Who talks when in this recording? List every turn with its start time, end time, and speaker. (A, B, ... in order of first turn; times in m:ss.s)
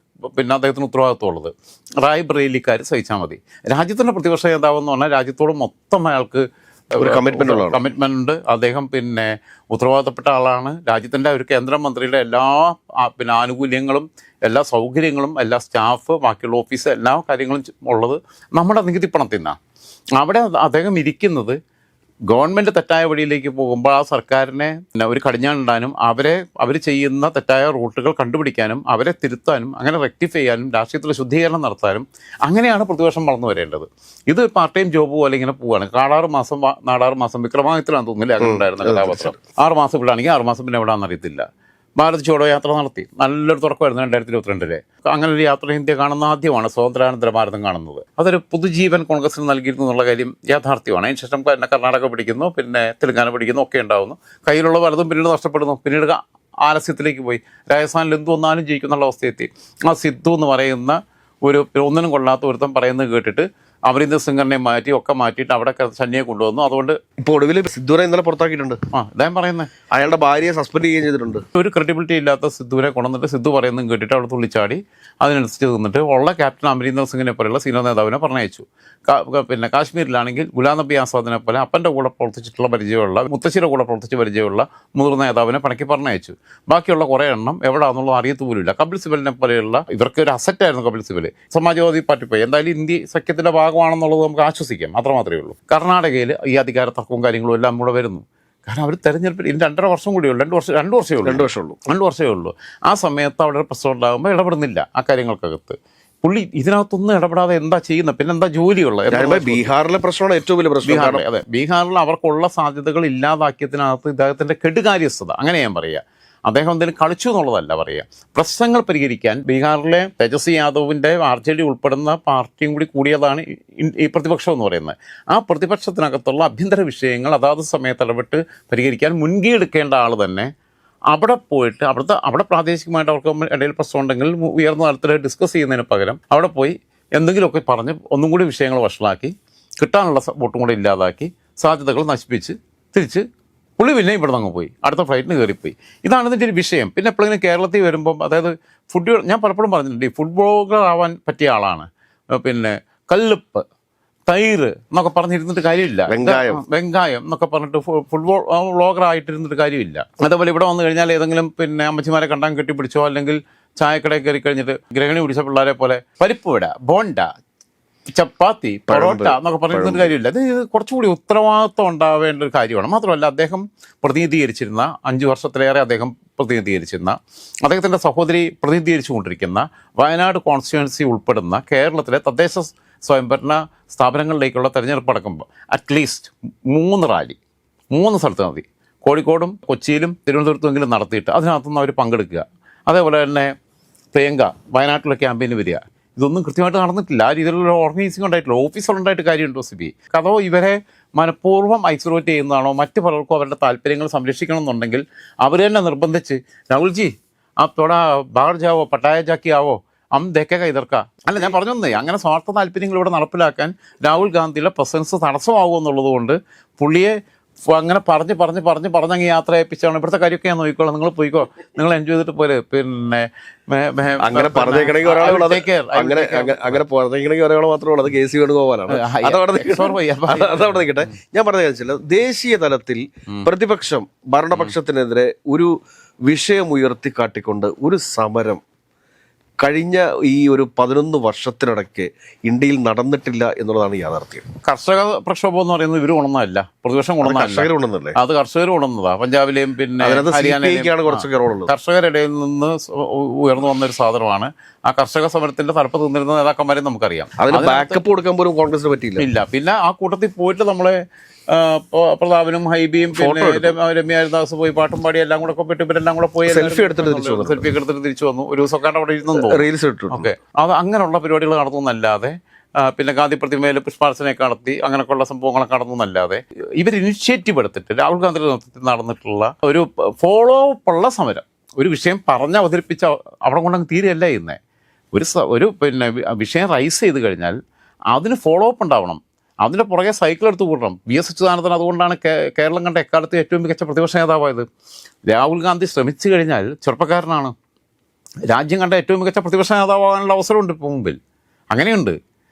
0:00.3-0:19.6 A
0:07.0-0:07.8 B
0:20.2-0:21.6 A
0:22.3-0:41.4 A
0:38.4-0:39.4 B
0:42.0-1:07.0 A
1:07.2-1:08.8 B
1:08.9-1:09.7 A
1:09.9-1:11.4 B
1:11.5-1:49.7 A
1:41.2-1:41.8 B
1:49.1-1:51.2 B
1:50.8-2:10.5 A
2:11.1-2:23.2 A
2:23.8-2:33.6 A
2:34.3-2:47.3 A
2:36.1-2:36.6 B
2:48.1-3:07.4 A
2:48.9-2:50.1 B
3:07.9-3:13.5 A
3:14.1-3:37.1 A
3:37.7-3:46.8 A
3:44.2-3:55.7 B
3:48.9-3:50.9 A
3:56.2-3:58.6 B
3:59.6-4:04.4 B
4:04.6-4:18.0 A
4:07.2-4:08.2 B
4:10.0-4:11.7 B
4:17.4-4:19.2 B
4:19.2-4:21.0 A
4:21.5-4:44.6 A
4:23.1-4:23.8 B
4:26.5-4:27.7 B
4:29.3-4:30.3 B
4:45.1-4:47.6 A
4:48.1-4:54.6 A
4:55.3-4:57.5 A
4:58.5-5:01.2 A
5:01.7-5:02.2 A